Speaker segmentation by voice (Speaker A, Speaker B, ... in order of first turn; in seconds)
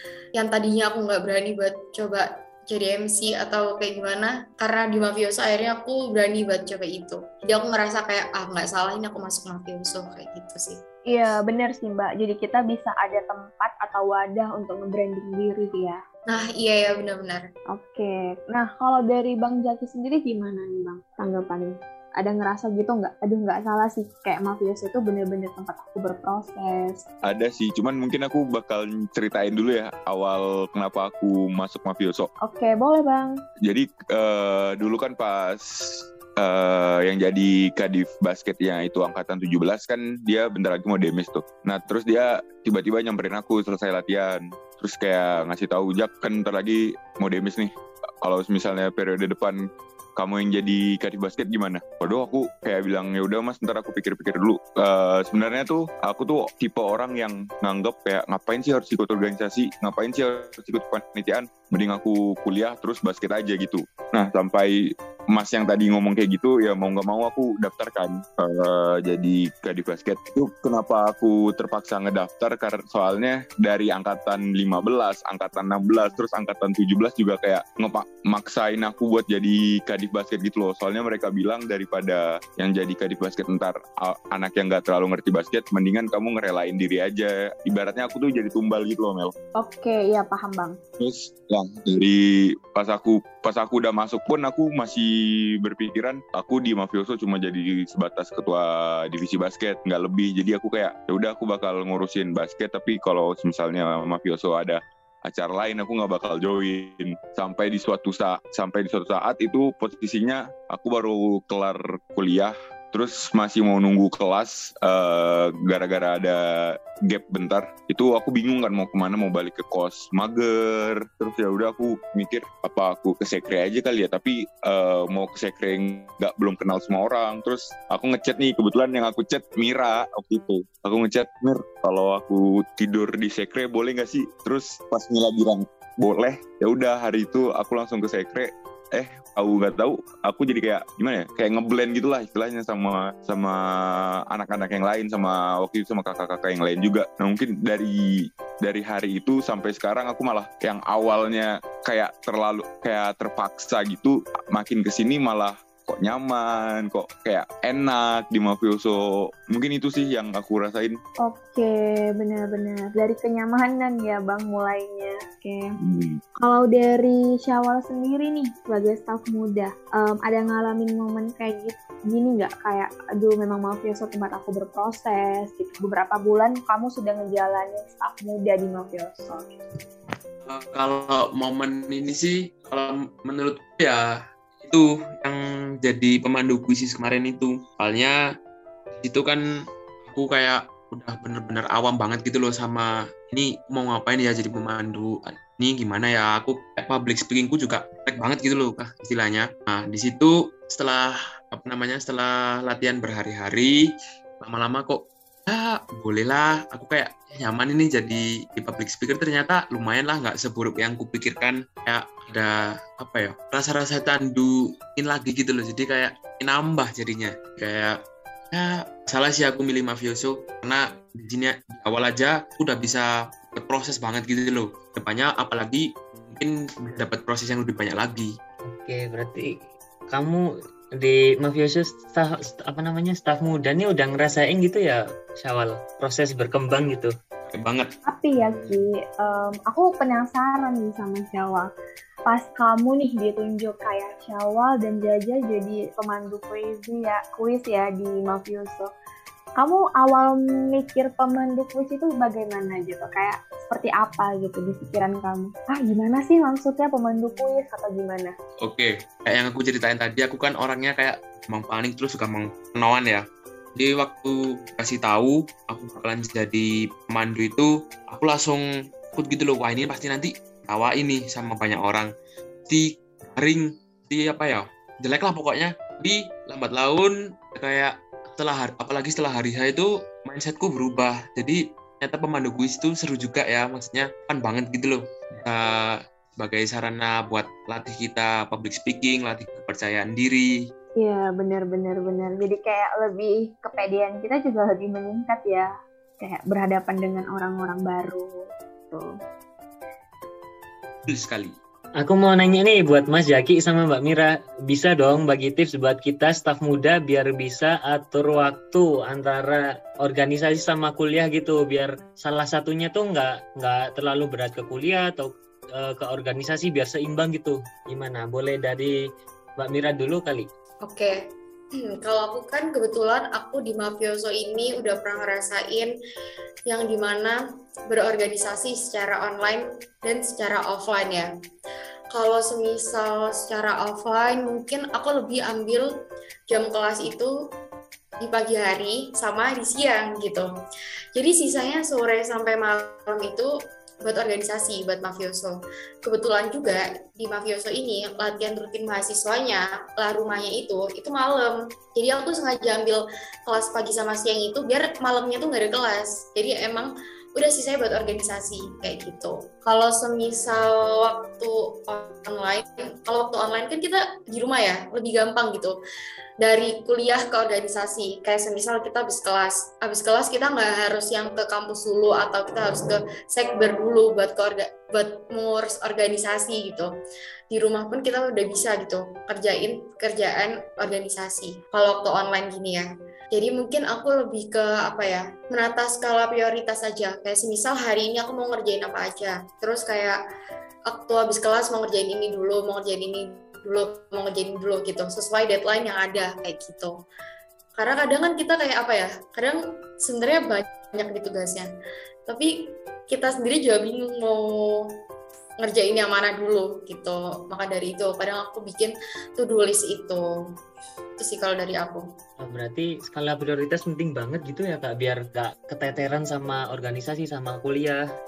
Speaker A: 0.3-10.8, 16.3-17.5, 320.9-321.2, 321.8-325.9, 326.7-327.4, 327.9-331.3, 332.1-335.9, 336.5-337.3, 338.2-340.5, 341.1-343.5, 344.0-365.7, 366.4-376.9, 377.5-390.2, 390.9-396.9, 397.8-401.7, 402.3-404.9, 405.6-410.3, 411.2-412.1
Speaker B: 11.1-16.0, 17.7-27.0, 32.4-33.4, 89.6-90.8, 161.2-165.7, 166.4-179.6, 238.1-241.7, 242.3-248.9, 249.6-258.4, 291.0-295.7, 296.2-299.1
Speaker C: 27.3-32.3, 33.6-49.6, 50.2-89.3, 91.0-161.0, 165.8-166.2
Speaker D: 180.5-184.1, 184.6-188.2, 189.0-189.4, 190.1-203.8, 204.4-218.0, 218.5-228.3, 237.5-237.9, 258.6-263.2, 263.8-272.1, 272.7-290.6, 301.1-301.5
Speaker E: 228.7-229.5, 230.1-230.4, 231.0-237.1, 238.4-238.8, 302.0-318.9, 319.6-320.5, 412.4-418.0